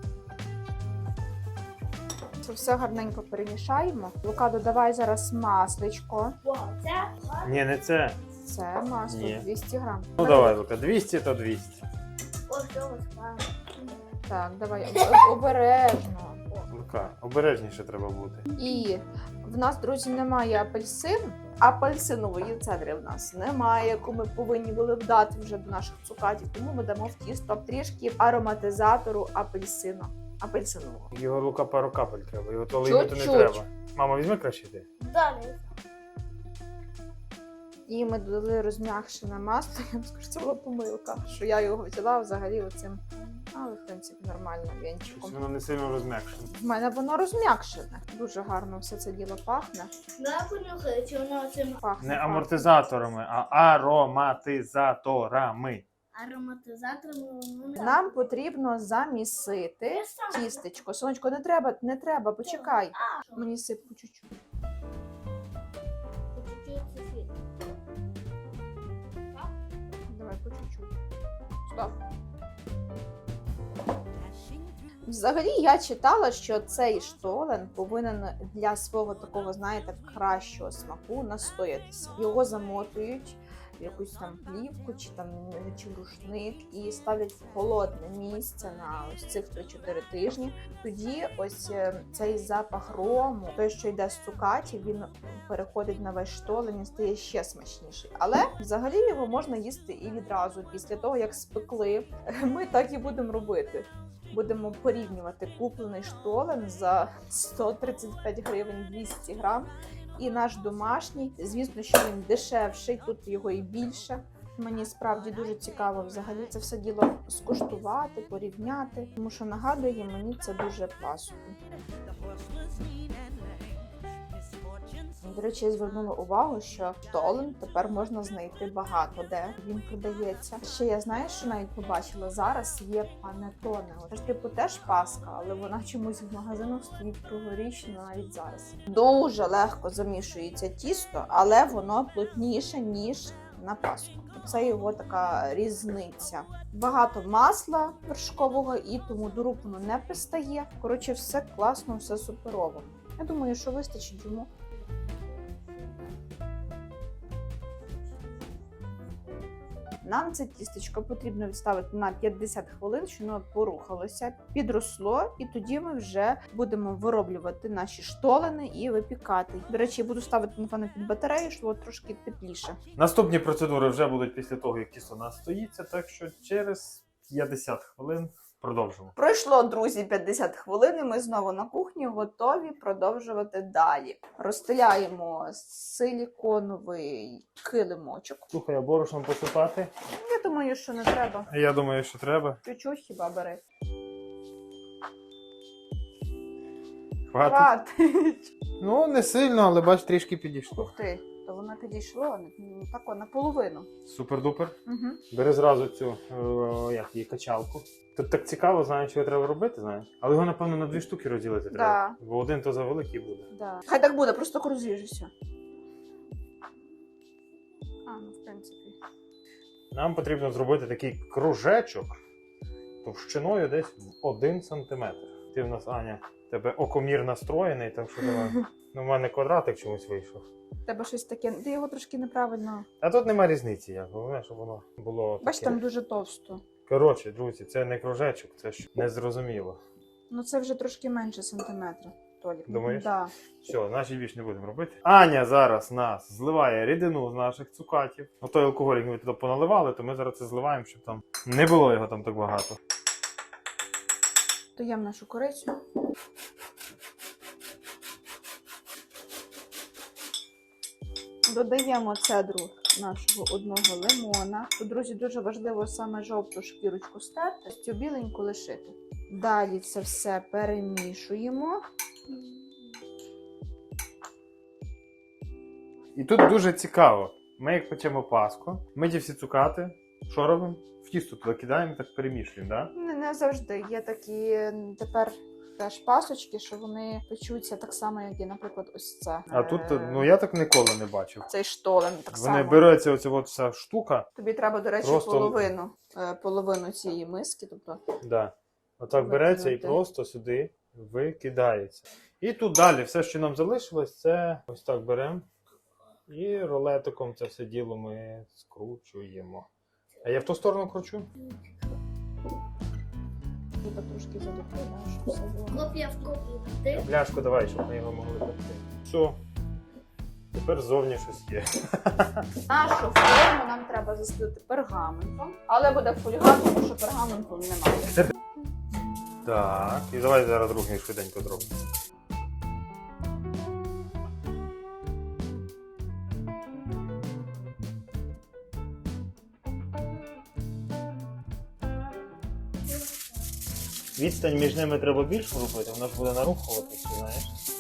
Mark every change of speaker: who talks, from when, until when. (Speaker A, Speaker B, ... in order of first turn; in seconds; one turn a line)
Speaker A: 2.4-6.3
Speaker B: 6.4-7.6
Speaker C: 7.4-8.2
Speaker A: 8.4-10.6
Speaker C: 9.1-9.5
Speaker C: 10.2-11.8
Speaker B: 12.5-13.9
Speaker A: 14.3-16.4
Speaker C: 16.7-18.5
Speaker A: 18.6-31.1
Speaker C: 31.1-34.9
Speaker A: 32.8-33.6
Speaker B: 35.0-35.6
Speaker A: 37.9-43.0
Speaker A: 43.5-45.4
Speaker C: 45.1-46.5
Speaker A: 46.5-49.9
Speaker B: 50.2-51.8
Speaker A: 51.8-52.9
Speaker C: 52.0-55.9
Speaker B: 56.1-58.1
Speaker A: 57.8-64.3
Speaker B: 59.9-60.6
Speaker B: 66.3-67.3
Speaker A: 70.1-70.9
Speaker A: 71.7-72.0
Speaker A: 75.1-121.6
Speaker A: 125.2-154.5
Speaker A: 160.0-172.8
Speaker C: 173.0-179.1
Speaker A: 179.2-188.5
Speaker C: 188.5-189.9
Speaker A: 190.2-191.5
Speaker C: 191.5-192.6
Speaker A: 192.6-193.6
Speaker C: 197.3-197.7
Speaker A: 197.4-198.5
Speaker C: 198.8-200.9
Speaker A: 200.8-203.9
Speaker C: 204.1-204.8
Speaker A: 204.9-205.2
Speaker C: 205.3-213.5
Speaker A: 211.7-212.2
Speaker A: 213.5-215.3
Speaker A: 218.1-219.0
Speaker C: 219.9-222.2
Speaker C: 223.0-230.4
Speaker A: 230.9-232.9
Speaker C: 233.0-235.8
Speaker A: 235.4-236.6
Speaker C: 236.9-239.8
Speaker A: 240.3-243.3
Speaker C: 242.7-243.1
Speaker C: 243.6-252.8
Speaker A: 254.8-255.8
Speaker A: 261.5-271.8
Speaker C: 276.1-282.9
Speaker A: 282.9-290.3
Speaker C: 289.5-291.5
Speaker A: 291.5-292.9
Speaker C: 292.3-294.3
Speaker A: 294.4-298.0
Speaker C: 295.0-295.7
Speaker C: 298.2-305.4
Speaker A: 299.2-300.0
Speaker C: 306.3-309.7
Speaker C: 310.2-311.3
Speaker A: 313.8-315.9
Speaker B: 315.7-317.1
Speaker C: 316.9-319.4
Speaker C: 320.5-322.5
Speaker A: 322.7-328.2
Speaker C: 329.4-331.8
Speaker C: 344.2-347.5